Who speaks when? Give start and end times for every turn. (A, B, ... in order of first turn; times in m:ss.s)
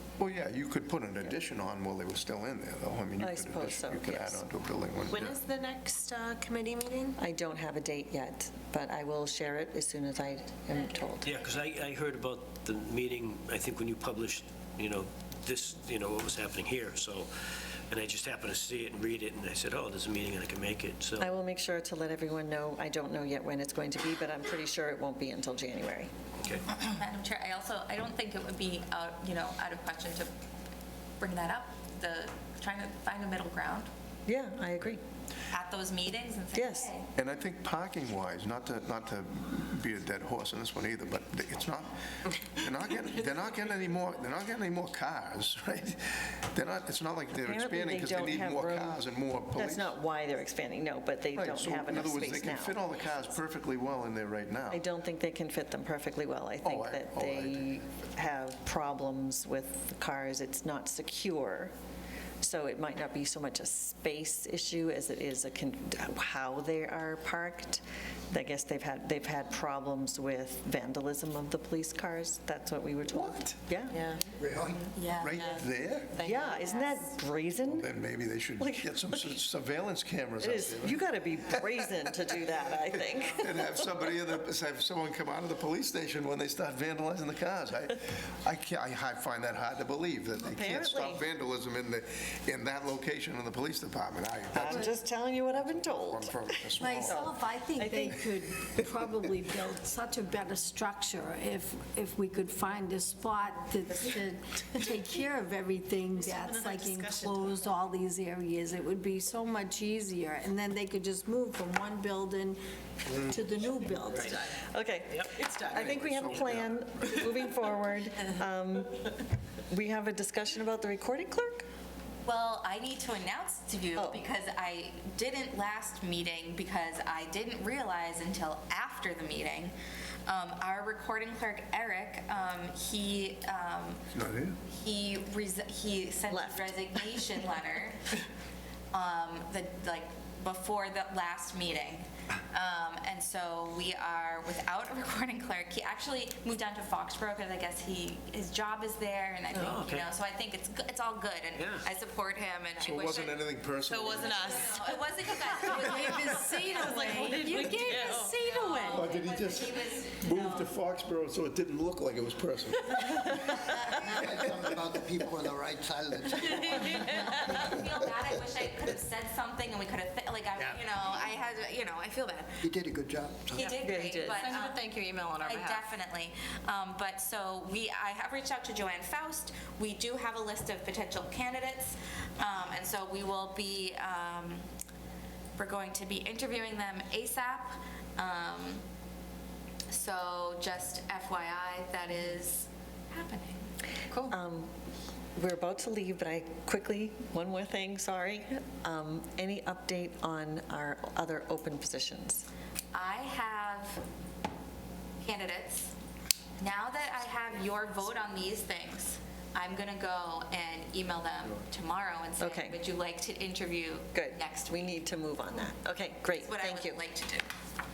0:00.2-0:05.4 A
0:03.2-0:04.4 B
0:05.1-0:07.2 C
0:07.2-0:11.3 B
0:11.2-0:17.3 D
0:17.9-0:21.4 D
0:21.2-0:26.1 B
0:26.6-0:30.3 E
0:31.2-0:33.9 E
0:34.3-0:35.0 B
0:35.5-0:37.1 E
0:36.5-0:36.9 B
0:37.2-0:50.0 A
0:47.4-0:49.0 B
0:49.6-0:52.8 B
0:51.3-0:54.8 A
0:54.7-1:01.7 B
0:56.6-0:57.7 A
1:02.4-1:14.2 B
1:14.0-1:14.4 C
1:14.4-1:14.9 F
1:14.9-1:15.5 E
1:15.2-1:16.4 A
1:16.2-1:17.9 B
1:17.6-1:22.3 A
1:18.6-1:19.4 B
1:20.4-1:23.8 B
1:22.9-1:35.0 A
1:30.5-1:31.2 B
1:34.5-1:38.2 B
1:35.5-1:37.3 A
1:36.8-1:54.5 G
1:46.2-1:47.6 B
1:54.0-1:54.4 D
1:54.2-1:59.1 B
1:55.1-1:56.4 D
1:55.7-1:57.2 A
1:59.7-2:01.6 B
2:02.2-2:09.7 E
2:04.0-2:04.2 B
2:10.3-2:14.0 E
2:14.1-2:14.6 A
2:14.7-2:18.2 E
2:16.3-2:17.4 B
2:18.9-2:37.2 E
2:29.5-2:30.1 D
2:31.6-2:31.9 D
2:32.8-2:34.8 A
2:35.5-2:35.9 A
2:35.7-2:39.1 G
2:37.2-2:38.2 C
2:37.2-2:38.3 B
2:38.0-2:38.3 D
2:38.3-2:40.7 E
2:38.7-2:39.0 C
2:38.9-2:44.8 A
2:43.9-2:47.8 F
2:46.8-2:52.6 E
2:52.6-2:53.7 F
2:53.5-3:04.6 E
2:53.5-2:55.9 C
2:53.8-2:54.6 B
3:05.6-3:08.8 E
3:09.9-3:13.7 E
3:14.2-3:14.7 B
3:15.4-3:22.5 B
3:22.9-3:24.0 E
3:25.2-3:25.9 E
3:26.6-3:35.1 E
3:32.4-3:32.8 B
3:34.1-3:37.0 B
3:36.2-3:37.5 E